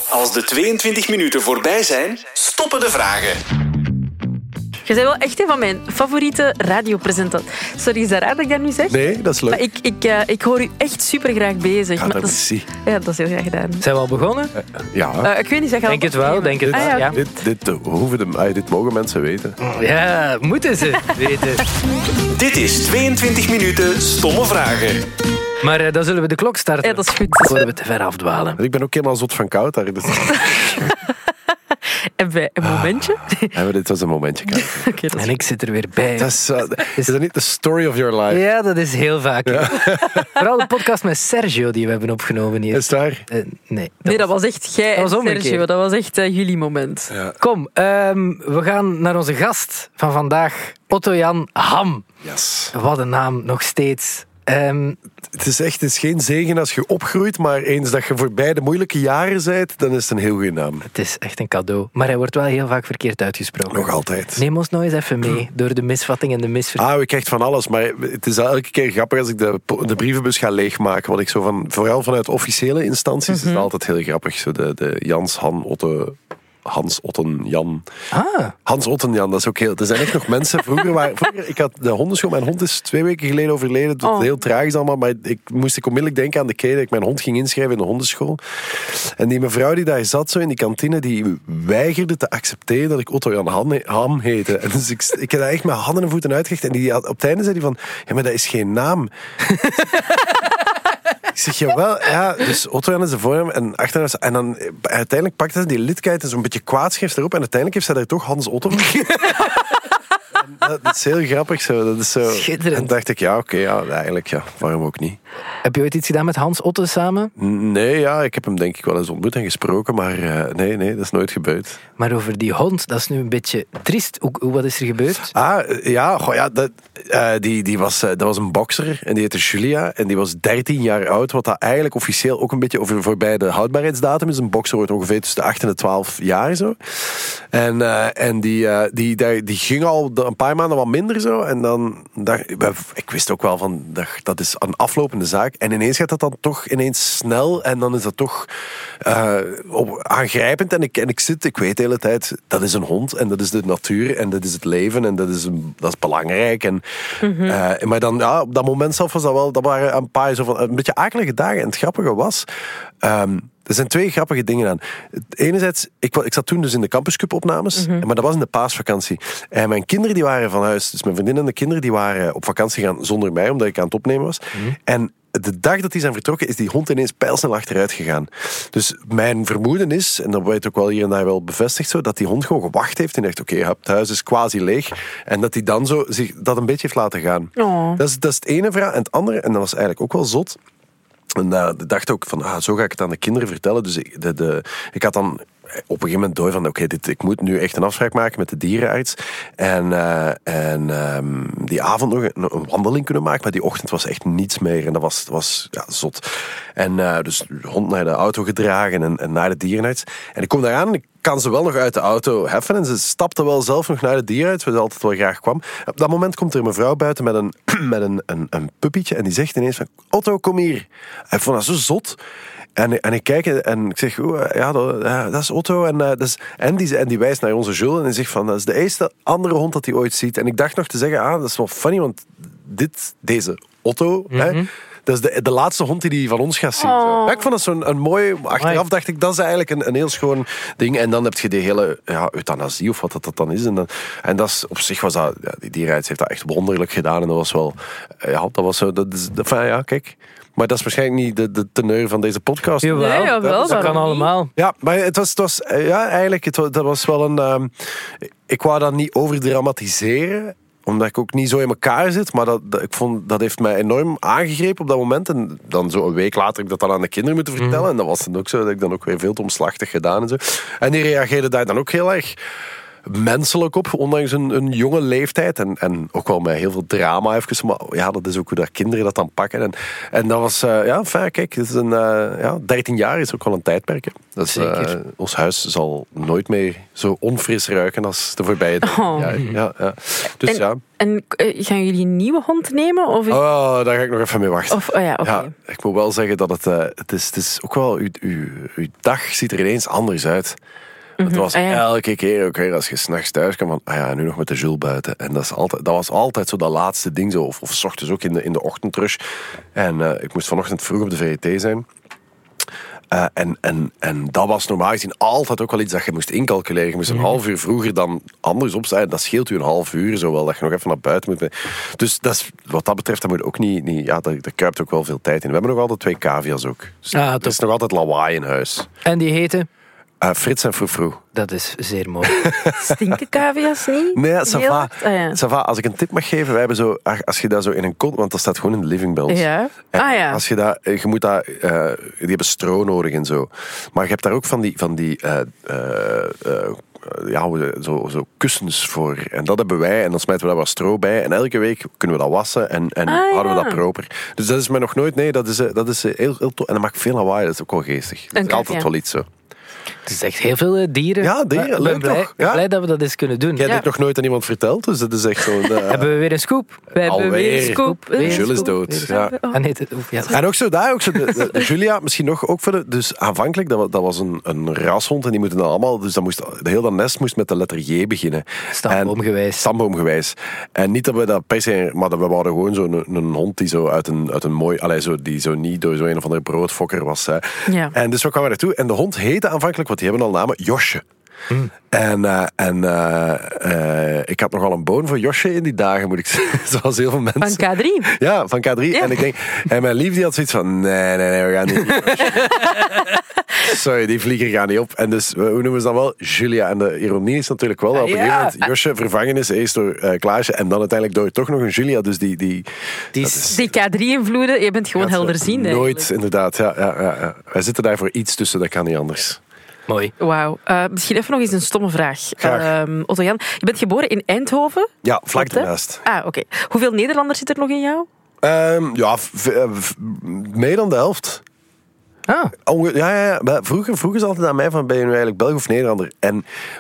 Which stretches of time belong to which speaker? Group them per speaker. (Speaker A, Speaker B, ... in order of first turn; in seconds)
Speaker A: 0.1-3.4, 22.3-25.1
Speaker B: 4.9-13.8, 15.2-17.3, 26.8-27.7, 30.1-31.0, 32.2-33.6, 34.5-35.4, 44.1-47.1, 73.3-73.7, 84.0-84.3, 157.2-157.6, 167.8-168.0, 187.6-188.0, 236.8-237.4, 252.9-254.3, 288.8-289.4, 290.4-293.4, 294.7-295.5, 301.2-301.9, 332.7-335.4, 339.3-340.4, 353.1-353.8, 358.4-358.9, 366.9-369.6, 371.3-371.6, 387.7-387.9, 397.4-398.1, 398.9-399.2, 402.5-403.0, 413.5-416.1, 420.2-428.1
Speaker C: 8.9-9.6, 12.0-12.7, 14.6-15.3, 16.7-19.6, 28.6-30.9, 32.6-34.9, 36.2-38.4, 39.5-40.2, 42.7-43.3, 47.1-47.4, 52.2-52.7, 55.3-60.9, 63.7-64.4, 66.8-77.8, 78.7-99.1, 101.3-109.5, 110.4-115.2, 117.4-121.8, 125.3-148.5, 149.0-156.8, 157.4-162.5, 163.0-190.6, 191.4-222.2, 222.8-254.0, 254.6-272.4, 273.1-290.8, 293.3-300.6, 301.2-309.2, 309.8-311.9, 313.1-328.9, 330.2-331.2, 332.3-333.2, 334.1-359.3, 361.2-362.6, 363.6-366.1, 367.0-369.3, 370.3-391.0, 391.9-402.6, 403.6-413.7, 415.0-419.4, 422.4-422.7, 425.0-426.0, 428.4-431.4, 432.6-436.4
Speaker D: 13.8-14.6, 15.9-17.2, 19.6-21.6, 25.6-28.6, 35.1-36.4, 38.3-44.3, 45.0-45.6, 47.4-52.1, 52.7-55.0, 60.9-66.8, 78.1-78.5, 99.5-100.2, 108.9-109.6, 112.2-112.9, 115.6-117.3, 122.0-125.3, 234.3-234.7, 252.8-254.5, 267.6-267.9, 284.5-284.9, 317.1-317.4, 327.1-327.6, 329.1-329.7, 331.4-332.5, 360.1-363.7, 365.9-366.9, 367.6-370.4, 378.7-379.7, 401.9-403.1, 408.0-408.6, 413.1-413.6, 419.9-420.1, 432.3-432.5